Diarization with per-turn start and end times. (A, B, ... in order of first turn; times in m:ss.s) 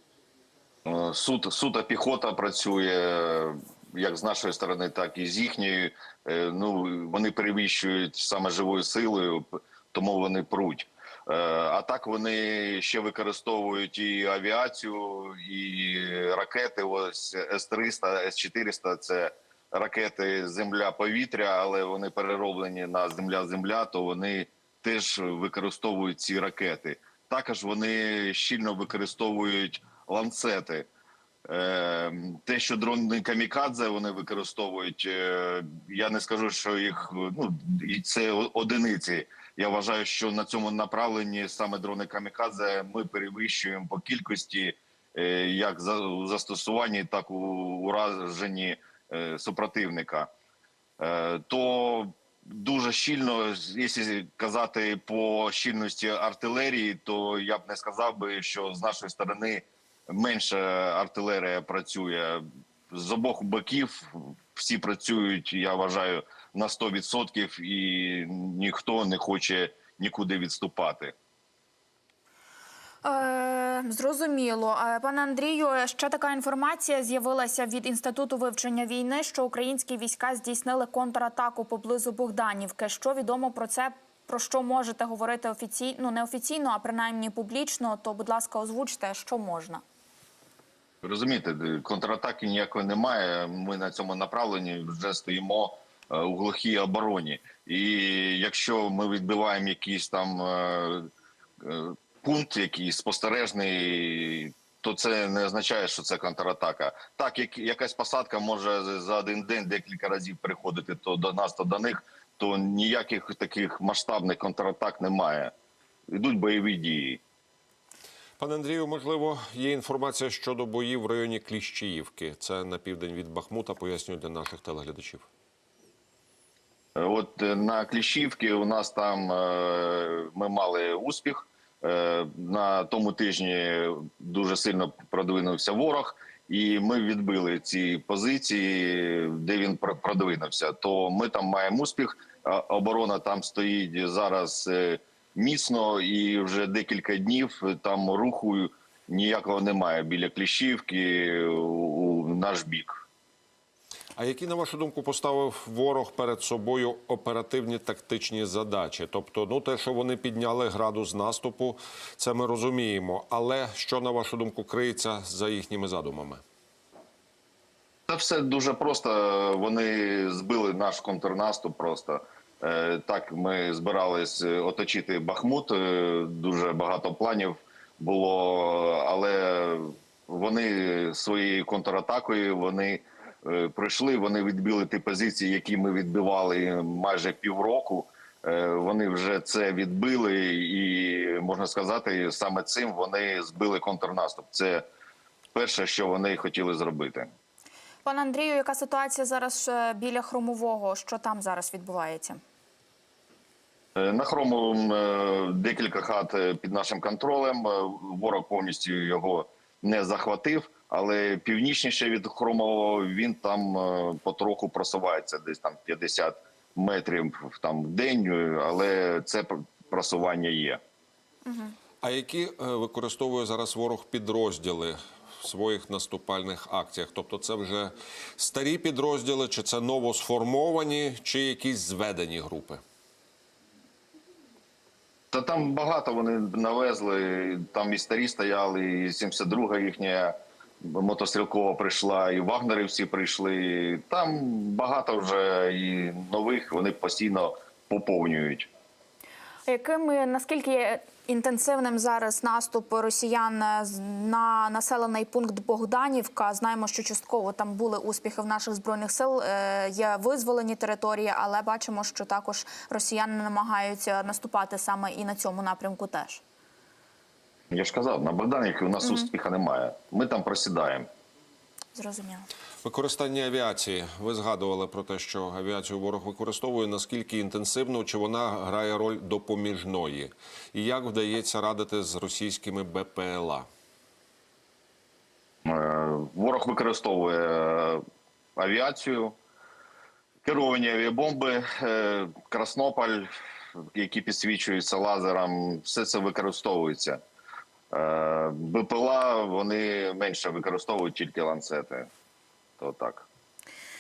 0:00.9-0:30.9 A
0:31.5-0:50.3 A
0:51.0-1:11.2 A
1:13.0-1:29.8 B
1:31.0-1:41.1 A
1:41.6-1:55.5 A
1:56.1-1:57.2 A
1:58.4-2:05.3 C
2:07.0-2:33.0 A
2:34.2-2:46.4 C
2:48.1-3:14.8 A
3:15.5-3:17.3 A
3:18.0-3:22.4 B
3:24.0-3:40.8 A
3:41.5-3:41.7 B
3:42.0-3:52.8 C
3:55.3-4:08.7 A
4:09.7-4:26.4 B
4:27.7-4:31.1 A
4:29.0-4:29.3 B
4:31.9-4:32.5 B
4:32.8-4:43.7 C
4:45.7-4:48.0 A
4:48.6-4:49.4 A
4:50.4-4:57.2 A
4:57.9-5:02.1 A
5:02.8-5:03.3 A